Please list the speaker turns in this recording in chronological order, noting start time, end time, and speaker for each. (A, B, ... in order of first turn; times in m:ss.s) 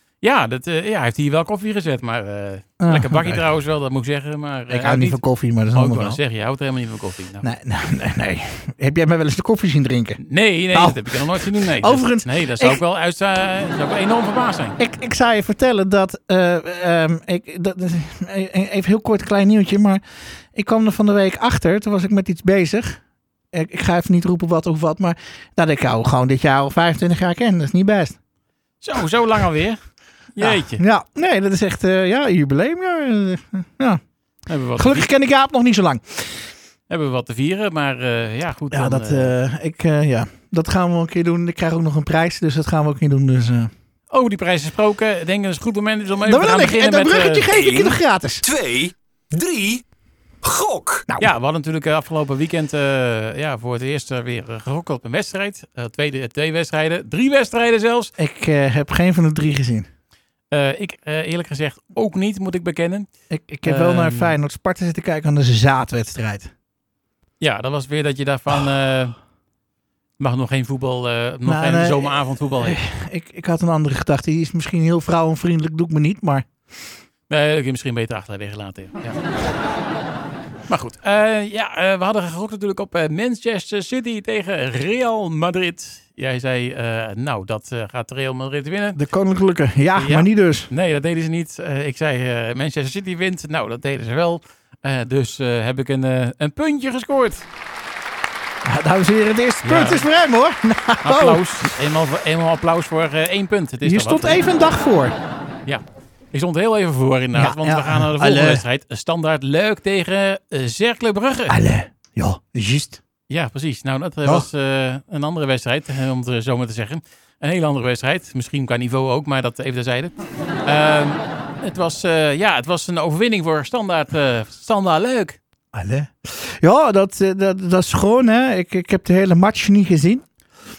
0:00.2-0:07.5 A
0:02.8-0:03.4 B
0:04.7-0:06.2 B
0:07.4-0:12.8 B
0:10.2-0:14.8 A
0:14.8-0:28.2 B
0:28.8-0:30.8 A
0:30.4-0:34.0 B
0:34.5-0:35.1 A
0:34.8-0:36.5 B
0:36.9-0:39.3 A
0:38.7-0:43.7 B
0:44.1-0:47.5 A
0:46.2-0:48.4 B
0:47.5-0:49.8 C
0:50.4-0:51.1 C
0:51.1-0:51.3 B
0:51.2-0:58.1 A
0:58.2-0:59.9 B
1:00.5-1:03.1 A
1:03.3-1:06.5 B
1:03.6-1:04.3 A
1:07.4-1:09.2 A
1:10.2-1:12.8 A
1:11.4-1:16.9 B
1:17.3-1:19.2 A
1:20.7-1:29.0 A
1:28.9-1:30.7 B
1:29.9-1:37.4 A
1:38.6-1:41.7 B
1:39.6-1:40.0 A
1:41.0-1:44.4 A
1:43.8-1:45.2 B
1:45.6-1:51.6 A
1:47.3-1:48.6 B
1:51.5-1:53.0 B
1:53.3-2:05.4 A
2:05.7-2:10.4 B